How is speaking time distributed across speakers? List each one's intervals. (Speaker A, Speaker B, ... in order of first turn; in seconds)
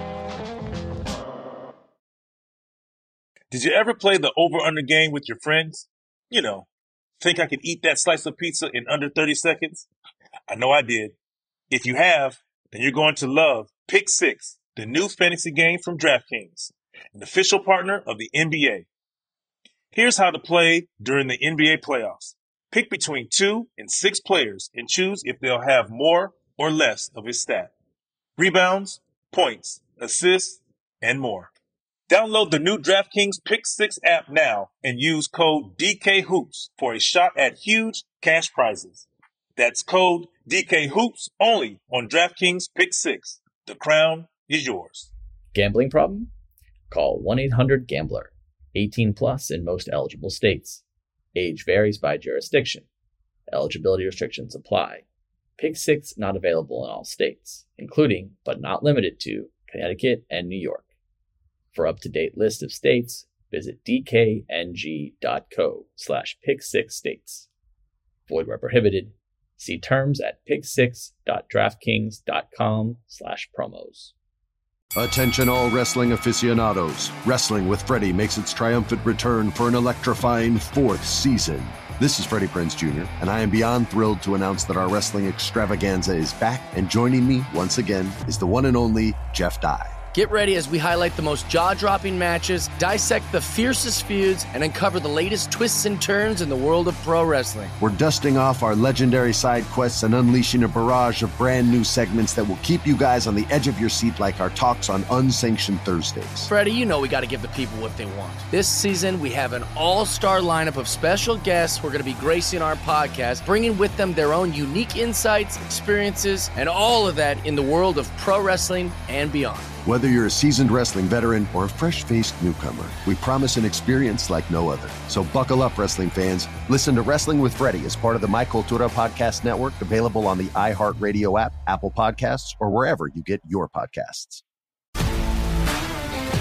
Speaker A: 3.5-6.7, 7.2-9.9, 10.5-11.1, 11.7-18.9, 19.9-27.7, 28.4-31.5, 32.1-45.1
Speaker B: 45.5-46.3, 46.9-50.8, 51.3-52.9, 53.5-55.0, 55.6-60.9, 61.7-67.5, 68.3-74.1
Speaker C: 75.0-89.9, 97.8-106.5, 119.8-134.4
Speaker D: 90.1-97.7, 106.5-119.7